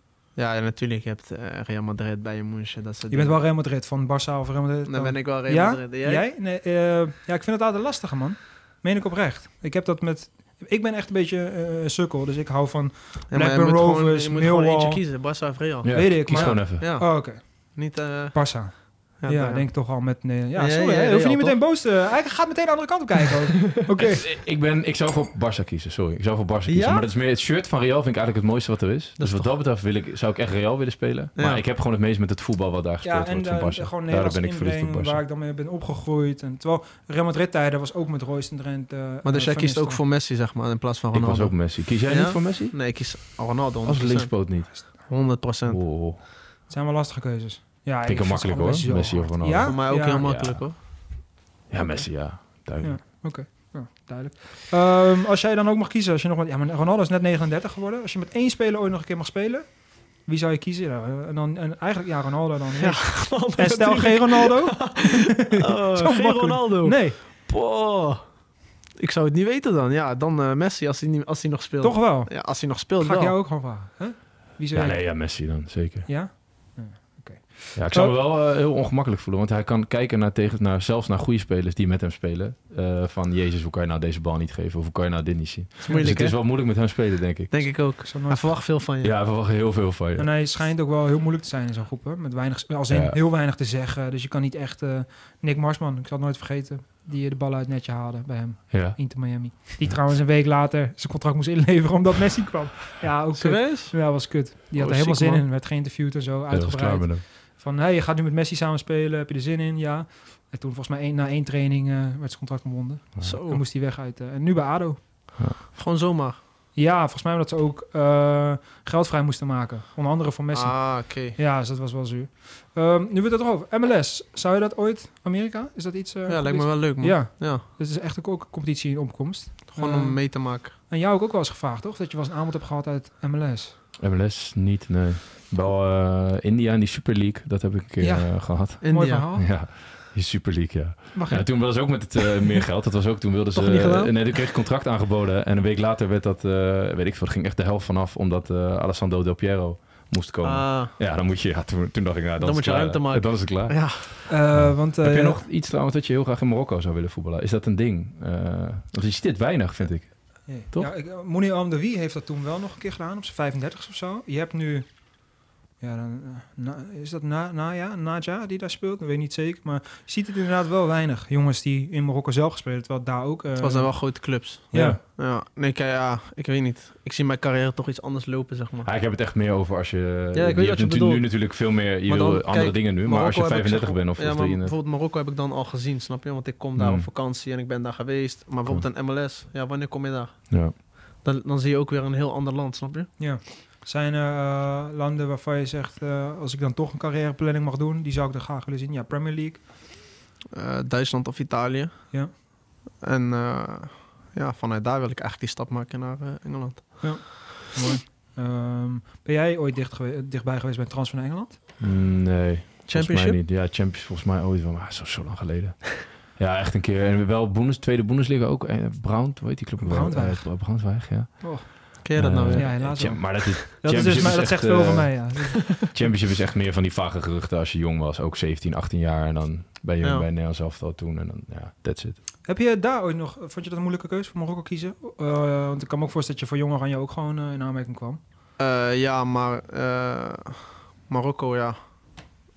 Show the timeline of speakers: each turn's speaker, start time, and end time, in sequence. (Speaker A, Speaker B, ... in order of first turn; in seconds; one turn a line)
Speaker A: 0.4-3.4
Speaker B: 3.1-15.1
Speaker A: 4.9-6.2
Speaker A: 13.3-21.7
Speaker C: 15.8-16.9
Speaker B: 15.9-24.3
Speaker C: 24.0-35.2
Speaker A: 26.7-27.1
Speaker A: 29.2-29.6
Speaker A: 31.4-31.6
Speaker B: 33.0-40.0
Speaker A: 39.2-45.9
Speaker C: 41.1-42.8
Speaker C: 43.9-45.0
Speaker C: 45.7-46.2
Speaker B: 46.7-50.5
Speaker C: 48.1-51.1
Speaker A: 49.6-51.1
Speaker C: 51.7-53.0
Speaker B: 52.8-67.2
Speaker A: 62.8-73.4
Speaker B: 71.8-78.2
Speaker C: 74.7-76.1
Speaker C: 77.8-87.8
Speaker B: 85.9-86.1
Speaker A: 85.9-89.2
Speaker B: 88.0-88.6
Speaker C: 89.0-90.3
Speaker B: 90.2-115.2
Speaker C: 92.9-93.2
Speaker C: 98.7-99.3
Speaker A: 103.4-105.5
Speaker C: 106.5-107.2
Speaker A: 113.2-113.6
Speaker A: 115.7-116.4
Speaker B: 116.8-133.8
Speaker A: 120.5-121.4
Speaker A: 126.3-127.6
Speaker A: 129.7-130.8
Speaker C: 134.0-160.9
Speaker B: 138.0-139.5
Speaker A: 138.8-139.3
Speaker B: 141.1-142.0
Speaker A: 143.5-144.4
Speaker A: 150.4-150.9
Speaker A: 152.4-154.3
Speaker B: 154.3-155.4
Speaker B: 160.5-175.0
Speaker A: 173.6-178.9
Speaker C: 178.8-184.8
Speaker A: 180.3-193.2
Speaker C: 186.8-187.1
Speaker C: 190.5-190.8
Speaker B: 193.2-199.7
Speaker A: 200.5-202.4
Speaker A: 203.0-207.4
Speaker B: 207.0-211.6
Speaker C: 211.8-232.2
Speaker A: 212.9-213.4
Speaker B: 219.8-225.9
Speaker A: 222.0-223.2
Speaker A: 223.8-224.7
Speaker A: 230.0-230.3
Speaker B: 232.5-238.2
Speaker A: 238.6-242.3